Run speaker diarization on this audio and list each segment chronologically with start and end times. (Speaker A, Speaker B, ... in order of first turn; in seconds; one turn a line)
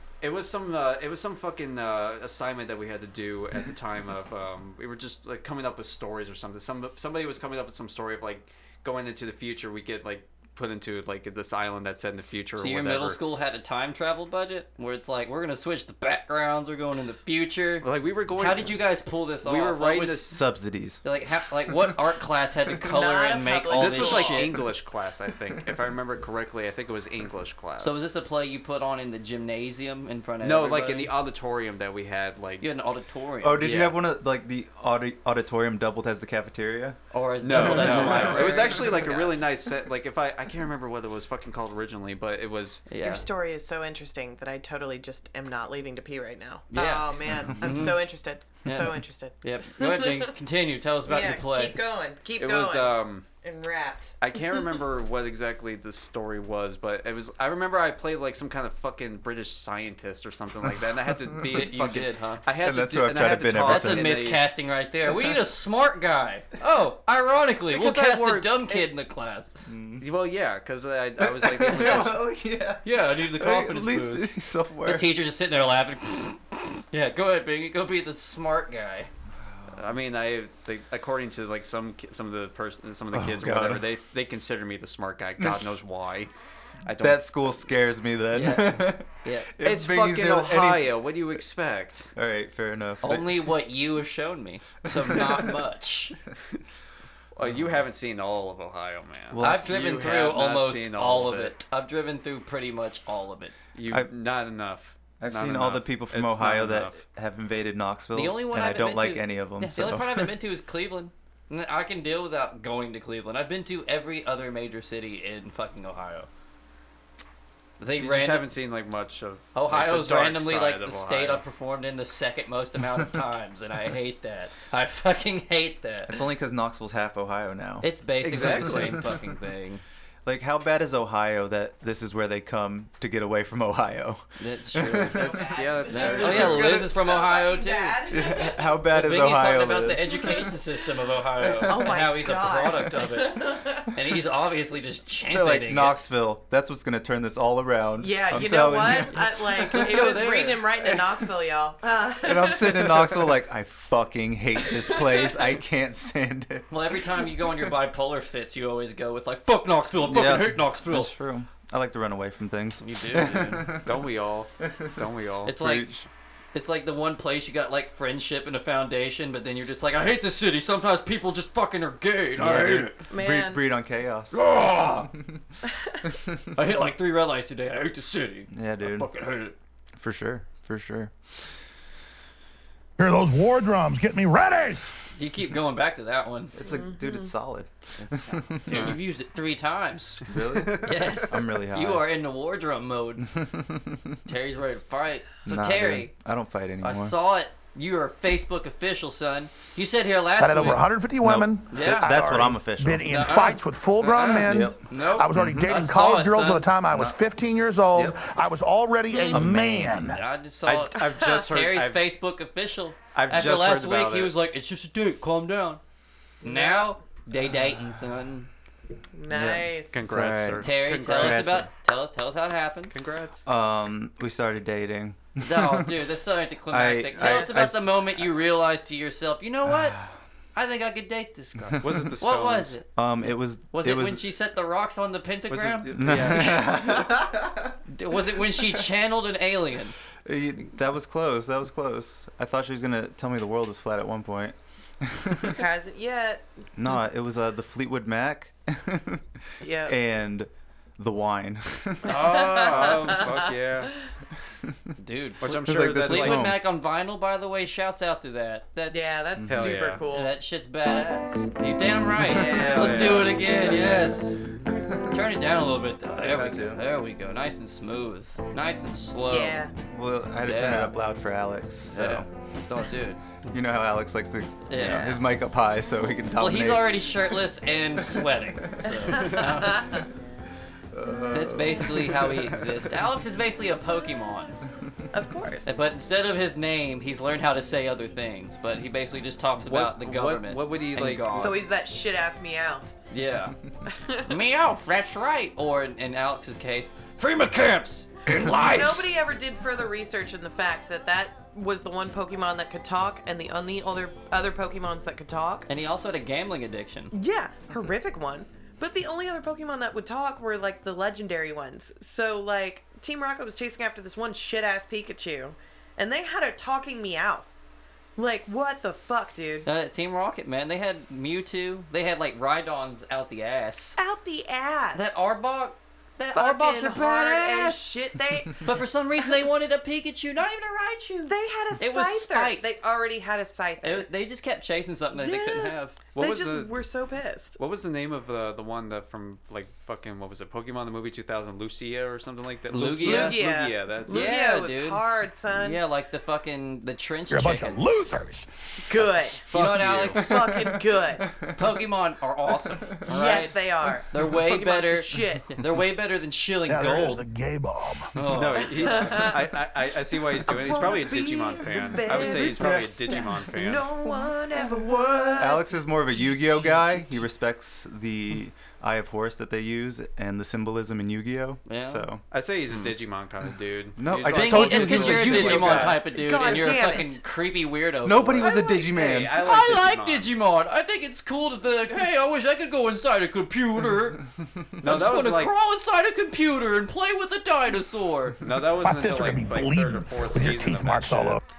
Speaker A: 0.2-13.2
Speaker B: 12.6-20.2
Speaker A: 17.8-18.8
Speaker A: 19.4-20.4
Speaker C: 20.0-21.0
Speaker B: 21.0-24.6
Speaker D: 22.8-24.6
Speaker A: 23.7-28.0
Speaker B: 27.8-31.1
Speaker A: 30.4-32.6
Speaker B: 32.6-33.7
Speaker C: 33.4-38.7
Speaker A: 33.6-34.0
Speaker B: 37.1-39.4
Speaker A: 37.4-42.9
Speaker B: 42.9-43.3
Speaker D: 43.0-50.3
Speaker B: 46.7-51.8
Speaker C: 47.3-48.0
Speaker D: 51.0-54.1
Speaker A: 52.4-53.2
Speaker A: 54.2-64.4
Speaker C: 61.1-61.6
Speaker B: 61.5-62.4
Speaker C: 62.6-64.3
Speaker B: 63.6-69.5
Speaker A: 67.7-68.9
Speaker C: 69.7-70.0
Speaker A: 70.0-72.2
Speaker C: 71.2-75.1
Speaker B: 72.8-74.3
Speaker B: 74.8-79.1
Speaker C: 79.4-79.7
Speaker A: 79.7-86.3
Speaker C: 83.1-83.9
Speaker C: 85.4-85.7
Speaker A: 86.8-87.7
Speaker C: 86.9-91.0
Speaker B: 88.3-89.5
Speaker A: 89.6-92.1
Speaker C: 92.1-93.5
Speaker B: 93.0-96.2
Speaker C: 94.9-95.6
Speaker A: 97.4-101.5
Speaker C: 99.3-100.0
Speaker B: 99.4-103.5
Speaker A: 103.7-107.0
Speaker C: 105.2-110.3
Speaker B: 108.1-116.3
Speaker B: 117.8-118.5
Speaker A: 118.0-121.4
Speaker B: 119.5-126.2
Speaker C: 126.1-129.1
Speaker B: 127.8-129.8
Speaker A: 128.2-129.1
Speaker C: 130.2-136.9
Speaker B: 134.4-135.4
Speaker D: 135.1-138.6
Speaker A: 135.2-136.9
Speaker B: 135.9-146.0
Speaker C: 138.1-140.5
Speaker C: 141.4-142.0
Speaker D: 141.6-143.9
Speaker C: 145.3-150.1
Speaker D: 148.0-153.2
Speaker B: 149.6-150.7
Speaker C: 152.2-156.7
Speaker D: 154.7-155.4
Speaker B: 156.7-161.1
Speaker C: 160.0-164.0
Speaker B: 162.8-163.7
Speaker A: 163.8-165.6
Speaker B: 165.5-165.9
Speaker C: 165.5-166.1
Speaker B: 166.5-173.0
Speaker C: 172.4-174.4
Speaker D: 173.1-173.7
Speaker B: 174.3-175.1
Speaker C: 175.0-175.4
Speaker B: 176.5-179.5
Speaker C: 178.5-179.1
Speaker C: 180.0-181.1
Speaker E: 183.0-184.8
Speaker B: 185.2-186.5
Speaker C: 186.5-189.0
Speaker D: 186.6-187.3
Speaker B: 188.0-193.3
Speaker C: 190.2-192.1
Speaker A: 190.5-191.2
Speaker C: 193.3-194.2
Speaker B: 194.2-196.1
Speaker C: 195.4-197.2
Speaker B: 196.8-200.9
Speaker E: 200.4-210.2
Speaker C: 201.2-203.2
Speaker B: 201.7-202.4
Speaker B: 203.1-206.7
Speaker C: 204.5-205.7
Speaker C: 206.9-207.2
Speaker D: 209.1-209.4
Speaker C: 209.3-210.1
Speaker B: 210.0-215.8
Speaker A: 210.6-212.0
Speaker A: 213.1-214.3
Speaker D: 216.4-216.9
Speaker B: 216.4-218.5
Speaker D: 219.1-220.1
Speaker C: 219.3-221.7
Speaker A: 219.9-221.7
Speaker B: 220.6-222.9
Speaker A: 222.9-223.4
Speaker C: 223.4-226.0
Speaker B: 225.4-230.0
Speaker C: 226.7-228.2
Speaker C: 229.7-230.0
Speaker B: 230.5-232.8
Speaker C: 231.7-232.1
Speaker A: 231.8-232.8
Speaker C: 232.9-234.3
Speaker B: 233.7-236.9
Speaker A: 235.5-236.7
Speaker C: 235.9-237.7
Speaker B: 237.9-240.0
Speaker C: 240.2-245.6
Speaker D: 245.4-246.5
Speaker C: 246.8-249.3
Speaker D: 249.6-249.9
Speaker C: 249.8-252.2
Speaker B: 252.0-253.0
Speaker D: 252.1-253.2
Speaker A: 252.6-253.9
Speaker B: 255.0-259.0
Speaker A: 255.4-256.5
Speaker C: 255.6-256.6
Speaker D: 258.9-260.3
Speaker C: 259.4-259.7
Speaker A: 259.5-260.0
Speaker B: 260.0-264.4
Speaker D: 262.2-263.3
Speaker C: 262.4-263.9
Speaker A: 262.6-263.4
Speaker C: 264.8-265.2
Speaker B: 265.1-269.6
Speaker C: 266.1-266.8
Speaker D: 269.3-269.7
Speaker C: 269.9-272.3
Speaker B: 270.4-270.9
Speaker B: 271.9-273.2
Speaker C: 273.5-277.2
Speaker B: 274.7-275.2
Speaker B: 276.4-280.0
Speaker C: 278.1-279.2
Speaker D: 279.2-279.8
Speaker C: 280.9-282.6
Speaker B: 281.3-284.6
Speaker D: 285.1-285.8
Speaker B: 285.7-291.6
Speaker A: 289.6-291.5
Speaker D: 291.3-293.0
Speaker B: 293.1-293.5
Speaker D: 293.9-294.3
Speaker B: 294.2-299.1
Speaker D: 298.6-305.7
Speaker B: 305.7-307.1
Speaker D: 307.1-317.5
Speaker D: 318.2-319.7
Speaker B: 319.6-324.0
Speaker D: 324.0-325.2
Speaker B: 324.9-327.9
Speaker D: 326.3-329.3
Speaker B: 328.6-332.6
Speaker D: 331.2-334.1
Speaker B: 333.8-336.0
Speaker D: 335.1-337.6
Speaker A: 336.1-336.8
Speaker A: 337.6-344.3
Speaker B: 342.7-343.4
Speaker D: 343.0-345.8
Speaker B: 344.1-347.8
Speaker E: 347.3-348.5
Speaker D: 348.9-349.5
Speaker B: 349.5-350.3
Speaker A: 349.5-350.2
Speaker D: 350.1-351.4
Speaker C: 350.3-351.5
Speaker B: 351.5-357.2
Speaker D: 353.0-355.6
Speaker E: 356.7-358.1
Speaker B: 358.1-359.0
Speaker A: 358.3-363.9
Speaker D: 358.7-359.5
Speaker D: 360.4-366.8
Speaker C: 362.4-363.2
Speaker C: 365.4-372.2
Speaker B: 371.7-372.0
Speaker A: 372.3-376.0
Speaker C: 374.0-376.0
Speaker B: 374.3-378.6
Speaker D: 376.1-377.2
Speaker C: 378.0-379.5
Speaker D: 378.4-379.2
Speaker A: 378.9-380.3
Speaker B: 379.4-384.2
Speaker A: 384.8-385.5
Speaker B: 384.8-388.4
Speaker A: 388.4-391.4
Speaker E: 388.8-391.4